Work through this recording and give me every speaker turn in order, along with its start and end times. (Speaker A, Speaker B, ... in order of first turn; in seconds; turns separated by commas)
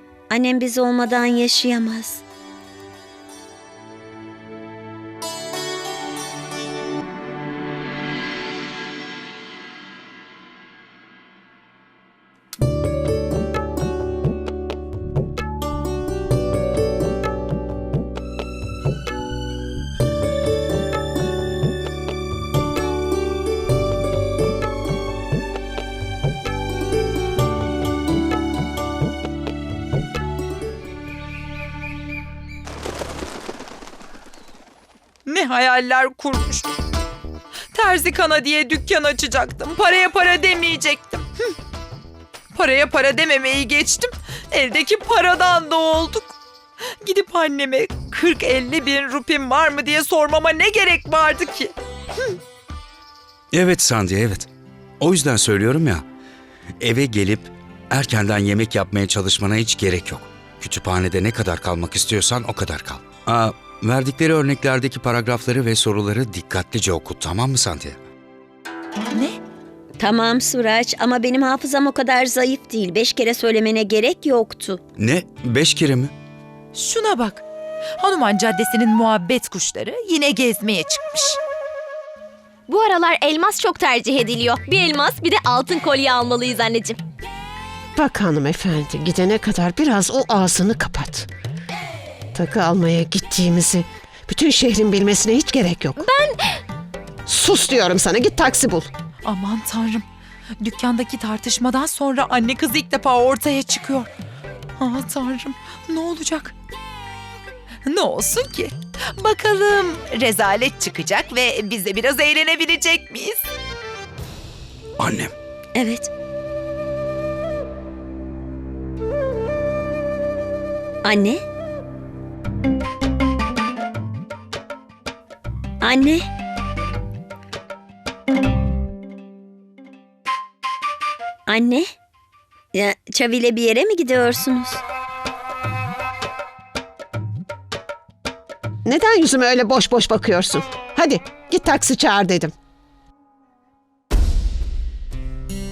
Speaker A: 0.3-2.2, Speaker B: 35.2-36.7, Speaker B: 37.7-41.2, Speaker B: 42.5-46.3, Speaker B: 47.0-51.7, Speaker C: 53.5-56.0, Speaker C: 56.8-68.0, Speaker B: 69.1-69.4, Speaker A: 70.0-74.8, Speaker C: 75.0-76.1, Speaker B: 76.7-77.4, Speaker B: 78.0-81.4, Speaker D: 82.7-87.0, Speaker E: 88.0-91.3, Speaker E: 92.3-96.0, Speaker D: 96.0-96.3, Speaker E: 97.3-98.9, Speaker B: 99.2-100.0, Speaker B: 100.6-104.1, Speaker B: 104.8-106.5, Speaker B: 107.8-113.4, Speaker C: 115.0-115.3, Speaker A: 115.7-116.1, Speaker A: 121.0-121.4, Speaker A: 125.8-126.2, Speaker A: 131.5-131.9, Speaker A: 132.7-134.8, Speaker E: 138.8-142.5